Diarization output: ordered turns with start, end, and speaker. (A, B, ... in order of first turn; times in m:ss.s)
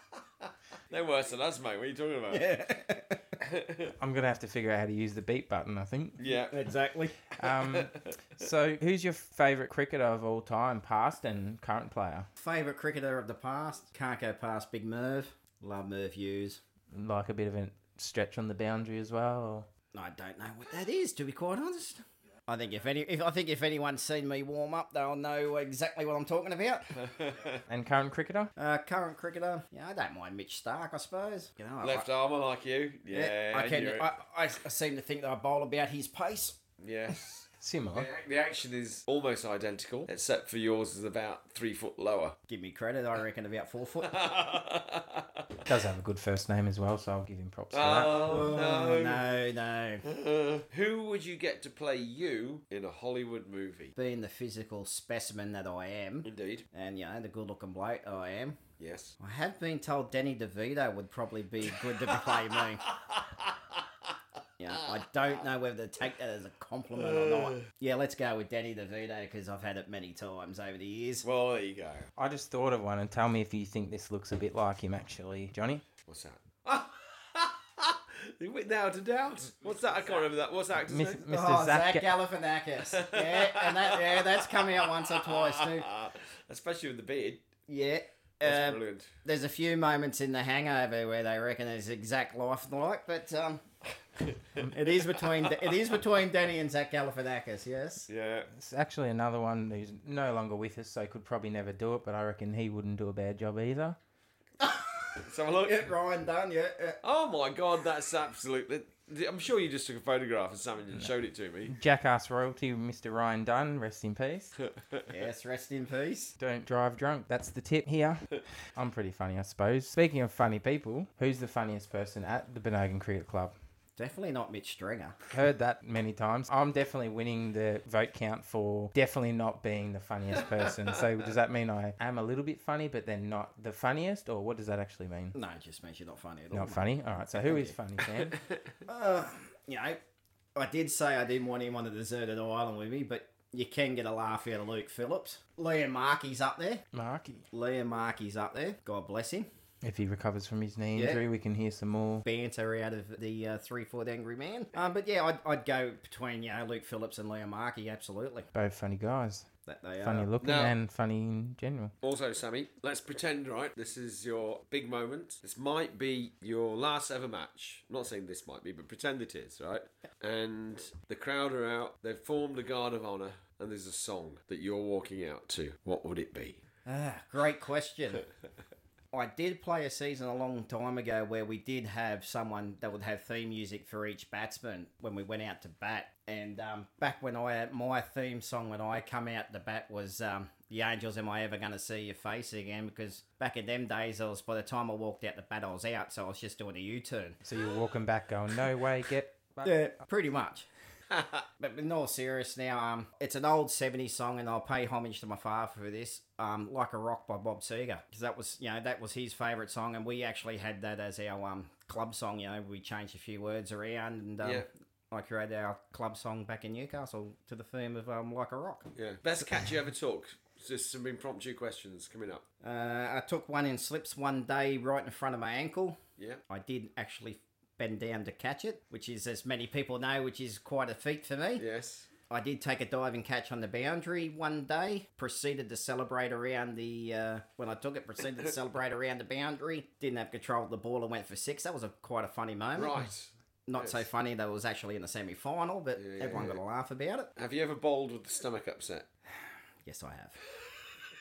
0:00.9-0:02.6 A
0:02.3-0:03.2 B
0:03.4-0:03.9 A
0:04.0-0:06.2 C
0:06.2-0:06.7 A
0:06.5-0:07.2 B
0:07.3-0:12.3 C
0:07.4-0:08.1 A
0:12.4-0:16.6 B
0:16.9-0:19.7 C
0:19.9-0:27.0 B
0:27.0-0:27.6 A
0:27.7-0:28.5 C
0:28.6-0:32.1 B
0:31.8-0:34.1 A
0:33.1-0:36.6 B
0:36.8-0:42.4 A
0:37.6-0:38.1 C
0:42.5-0:44.2 B
0:44.1-0:45.3 A
0:45.6-0:48.2 C
0:47.7-0:49.3 A
0:48.2-0:50.0 B
0:50.0-0:53.9 A
0:54.0-0:58.6 B
0:56.2-0:56.7 A
0:58.8-0:59.2 A
0:59.2-1:02.8 B
1:01.8-1:03.5 A
1:04.6-1:11.3 B
1:07.2-1:07.5 A
1:11.2-1:12.1 A
1:12.2-1:15.8 C
1:16.1-1:21.3 A
1:19.6-1:20.2 B
1:20.8-1:22.1 C
1:21.3-1:25.9 B
1:22.9-1:27.5 A
1:27.7-1:33.6 B
1:28.4-1:29.1 A
1:34.7-1:38.1 B
1:35.3-1:35.5 A
1:38.1-1:38.5 A
1:38.5-1:44.0 C
1:44.6-1:47.0 B
1:45.2-1:45.9 A
1:47.0-1:51.8 A
1:51.7-1:54.5 C
1:55.1-1:56.4 B
1:56.4-2:03.5 C
2:04.0-2:05.2 B
2:05.3-2:15.4 C
2:15.3-2:17.8 B
2:16.5-2:18.4 C
2:18.9-2:20.0 B
2:20.6-2:26.8 B
2:26.9-2:27.5 C
2:27.5-2:29.5 B
2:29.8-2:32.3 C
2:31.0-2:31.2 B
2:32.2-2:38.5 B
2:38.5-2:39.5 C
2:39.7-2:40.3 B
2:40.0-2:41.9 C
2:40.4-2:40.8 A
2:42.0-2:56.6 A
2:56.8-2:58.3 B
2:59.1-3:17.4 B
3:17.4-3:19.8 C
3:19.6-3:20.7 B
3:21.6-3:38.9 B
3:34.4-3:34.7 A
3:39.0-3:42.4 A
3:42.6-3:46.0 B
3:46.5-3:51.6 B
3:51.6-3:52.1 A
3:52.3-4:03.0 B
4:02.8-4:04.1 A
4:03.7-4:07.3 B
4:06.0-4:06.6 A
4:07.4-4:09.1 A
4:09.8-4:10.4 B